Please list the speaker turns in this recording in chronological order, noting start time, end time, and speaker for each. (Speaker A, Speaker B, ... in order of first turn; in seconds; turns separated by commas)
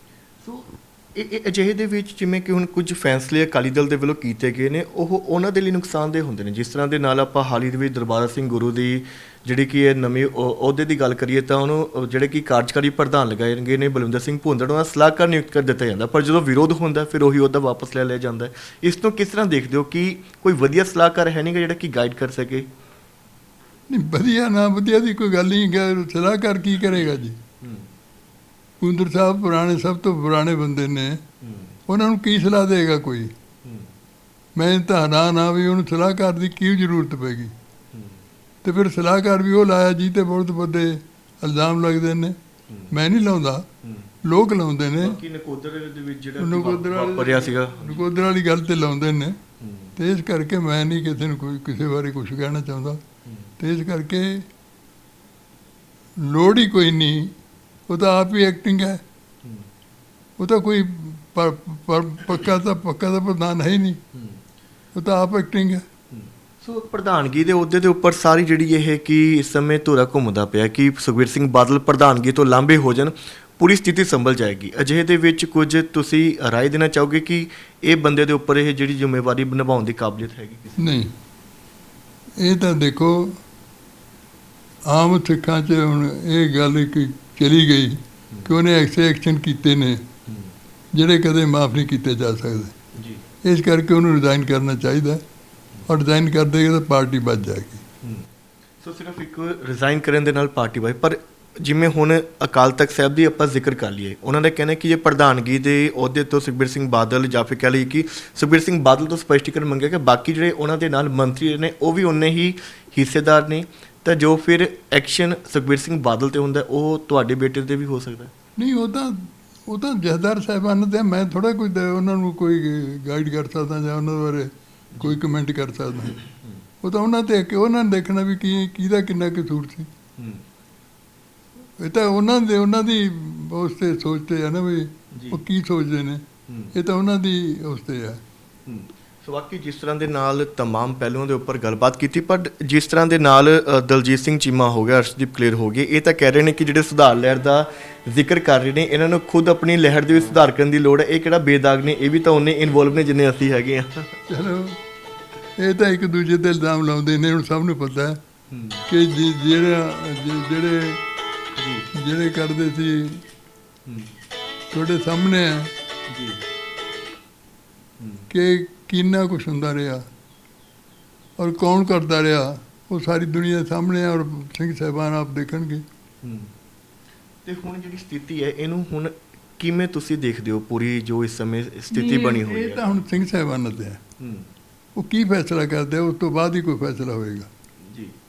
Speaker A: 0.4-22.7, Speaker B: 23.9-27.4, Speaker A: 27.6-27.9, Speaker B: 28.8-31.2, Speaker A: 31.4-31.8, Speaker B: 31.9-33.3, Speaker A: 33.6-33.9, Speaker B: 34.5-37.5, Speaker A: 37.9-38.2, Speaker B: 38.6-42.4, Speaker A: 42.7-42.9, Speaker B: 42.9-43.7, Speaker A: 43.8-44.1, Speaker B: 44.2-45.2, Speaker A: 45.0-48.2, Speaker B: 46.4-49.4, Speaker A: 49.6-50.0, Speaker B: 50.0-53.0, Speaker A: 53.2-53.5, Speaker B: 53.6-54.4, Speaker B: 56.2-57.3, Speaker B: 57.9-59.0, Speaker A: 59.4-59.7, Speaker B: 60.4-64.0, Speaker A: 64.1-64.4, Speaker B: 64.9-65.8, Speaker A: 66.1-81.0, Speaker B: 80.8-81.1, Speaker B: 82.4-83.4, Speaker B: 84.9-90.0, Speaker A: 88.3-88.6, Speaker A: 90.2-90.5, Speaker B: 90.9-92.7, Speaker A: 92.9-93.2, Speaker B: 93.4-95.2, Speaker B: 95.8-97.8, Speaker A: 98.0-98.3, Speaker A: 98.8-118.3, Speaker B: 118.6-126.2, Speaker A: 124.9-125.2, Speaker A: 126.2-126.5, Speaker B: 126.8-129.9, Speaker A: 130.2-130.4, Speaker B: 131.8-138.2, Speaker A: 135.1-135.4, Speaker A: 136.5-136.7, Speaker A: 138.6-154.2, Speaker B: 154.3-154.8, Speaker B: 155.6-158.2, Speaker A: 158.5-158.8, Speaker B: 158.9-161.0, Speaker A: 161.5-161.9, Speaker B: 161.9-163.2, Speaker A: 163.8-164.1, Speaker B: 164.7-165.7, Speaker A: 166.1-166.4, Speaker A: 168.0-168.3, Speaker B: 168.3-170.1, Speaker B: 171.4-175.8, Speaker A: 176.2-176.5, Speaker A: 177.4-183.1, Speaker B: 181.9-184.0, Speaker A: 184.2-184.5, Speaker B: 184.9-187.5, Speaker A: 187.8-188.2